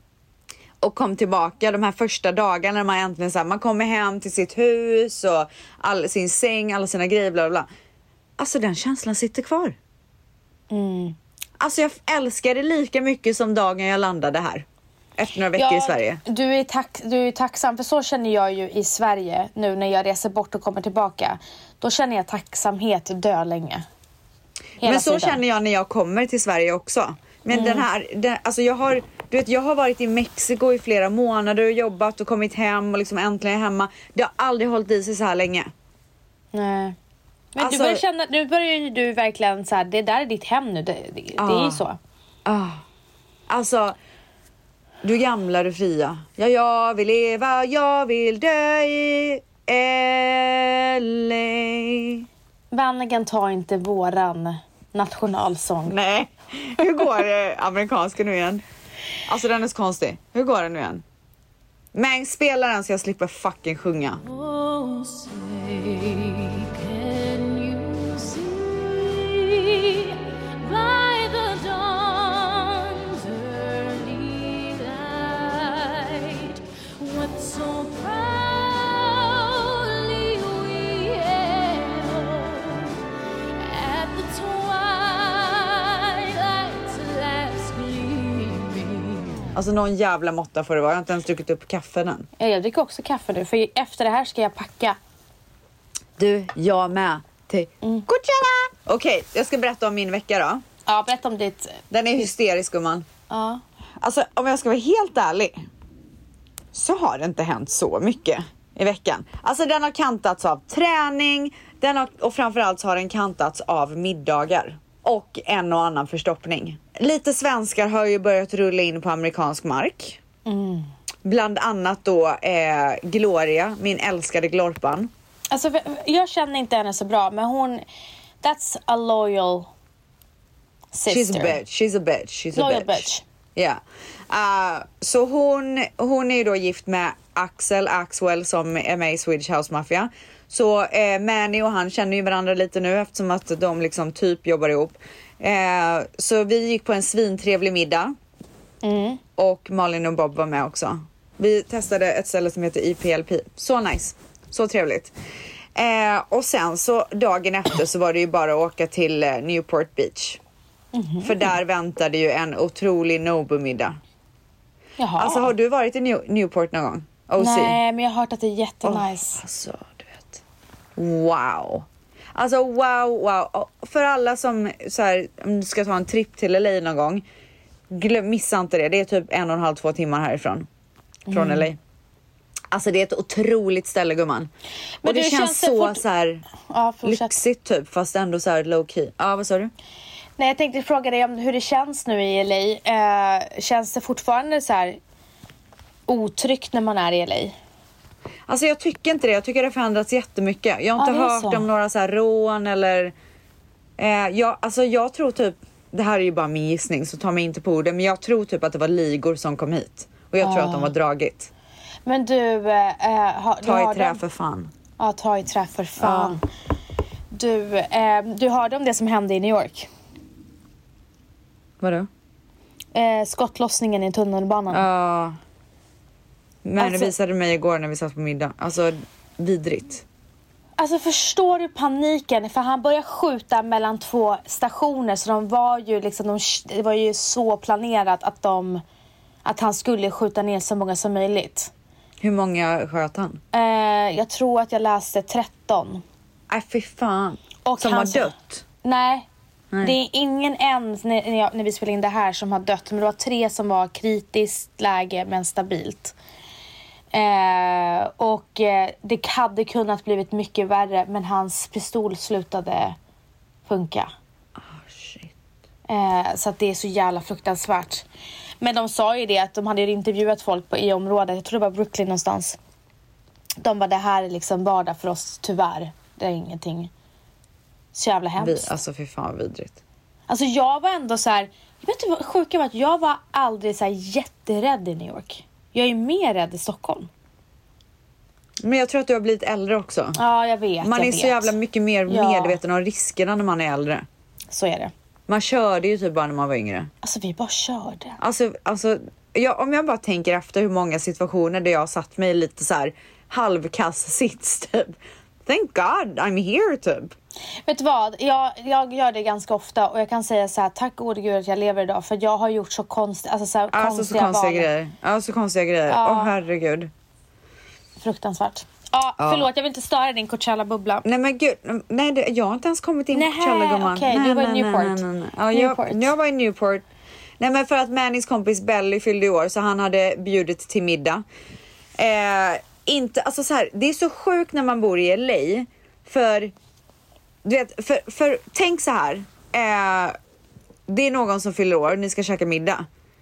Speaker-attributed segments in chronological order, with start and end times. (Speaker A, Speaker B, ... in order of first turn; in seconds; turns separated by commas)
Speaker A: 0.8-7.7, Speaker A: 8.4-9.8, Speaker B: 10.7-11.2, Speaker A: 11.6-14.7, Speaker A: 15.2-16.2, Speaker B: 15.6-23.8, Speaker B: 24.8-25.4, Speaker A: 24.8-35.7, Speaker B: 27.5-27.9, Speaker B: 36.5-37.0, Speaker B: 37.5-42.0, Speaker A: 37.6-38.0, Speaker A: 41.4-41.8, Speaker A: 42.5-42.8, Speaker A: 43.5-44.0, Speaker A: 45.0-52.2, Speaker B: 52.7-56.0, Speaker A: 55.9-58.6, Speaker A: 59.3-61.0, Speaker A: 61.9-64.2, Speaker C: 65.8-66.5, Speaker C: 68.8-69.7, Speaker C: 75.1-76.1, Speaker C: 78.7-79.0, Speaker A: 89.5-92.3, Speaker B: 92.4-95.0, Speaker A: 96.2-100.6, Speaker B: 100.8-101.8, Speaker A: 101.9-103.0, Speaker B: 103.3-103.6, Speaker A: 104.0-105.6, Speaker A: 106.7-120.2, Speaker B: 120.4-120.9, Speaker A: 121.2-125.1, Speaker B: 125.5-127.8, Speaker B: 128.4-129.7, Speaker B: 130.9-131.6, Speaker A: 131.1-148.1, Speaker B: 132.5-133.2, Speaker B: 148.8-149.2, Speaker A: 149.4-155.1, Speaker A: 155.7-160.4, Speaker B: 160.9-161.5, Speaker A: 161.2-164.0, Speaker B: 165.0-165.5, Speaker A: 165.2-167.8, Speaker B: 167.4-169.4, Speaker A: 168.8-170.4, Speaker A: 170.9-177.2, Speaker A: 177.9-180.7, Speaker B: 181.3-181.7, Speaker A: 181.3-181.8, Speaker A: 182.7-184.5, Speaker B: 185.0-186.0, Speaker A: 185.0-186.4, Speaker B: 186.7-187.4, Speaker A: 187.0-189.7, Speaker B: 190.4-195.0, Speaker B: 196.1-197.5, Speaker A: 198.5-203.1, Speaker B: 201.0-201.7, Speaker A: 204.0-211.5, Speaker B: 210.4-210.9, Speaker B: 212.1-214.2, Speaker A: 213.6-214.7, Speaker B: 215.0-216.4, Speaker A: 216.0-216.4, Speaker B: 217.3-219.9, Speaker A: 221.8-222.1, Speaker B: 222.9-224.8, Speaker A: 224.7-225.3, Speaker A: 226.6-230.0, Speaker B: 226.8-227.1, Speaker B: 230.8-238.8, Speaker B: 239.4-241.7, Speaker A: 242.2-243.4, Speaker B: 243.5-246.0, Speaker A: 246.5-248.6, Speaker B: 247.6-248.3, Speaker B: 248.8-249.3, Speaker B: 249.8-256.1, Speaker B: 257.1-263.0, Speaker B: 263.7-264.1, Speaker A: 264.6-265.3, Speaker B: 265.9-268.0, Speaker B: 268.6-272.6, Speaker B: 273.6-276.9, Speaker B: 277.9-278.7, Speaker A: 278.4-279.8, Speaker B: 280.3-287.1, Speaker A: 288.6-290.2, Speaker B: 290.1-291.5, Speaker A: 290.8-294.0, Speaker B: 292.1-292.6, Speaker B: 294.5-294.9, Speaker A: 295.3-296.9, Speaker B: 297.0-298.2, Speaker A: 298.2-307.1, Speaker B: 307.6-314.7, Speaker A: 313.7-316.9, Speaker B: 315.9-316.3, Speaker B: 318.0-321.0, Speaker A: 319.2-319.5, Speaker A: 321.0-326.8, Speaker B: 323.1-326.1, Speaker A: 327.4-331.2, Speaker A: 332.0-336.5, Speaker A: 337.4-340.1, Speaker A: 340.9-342.8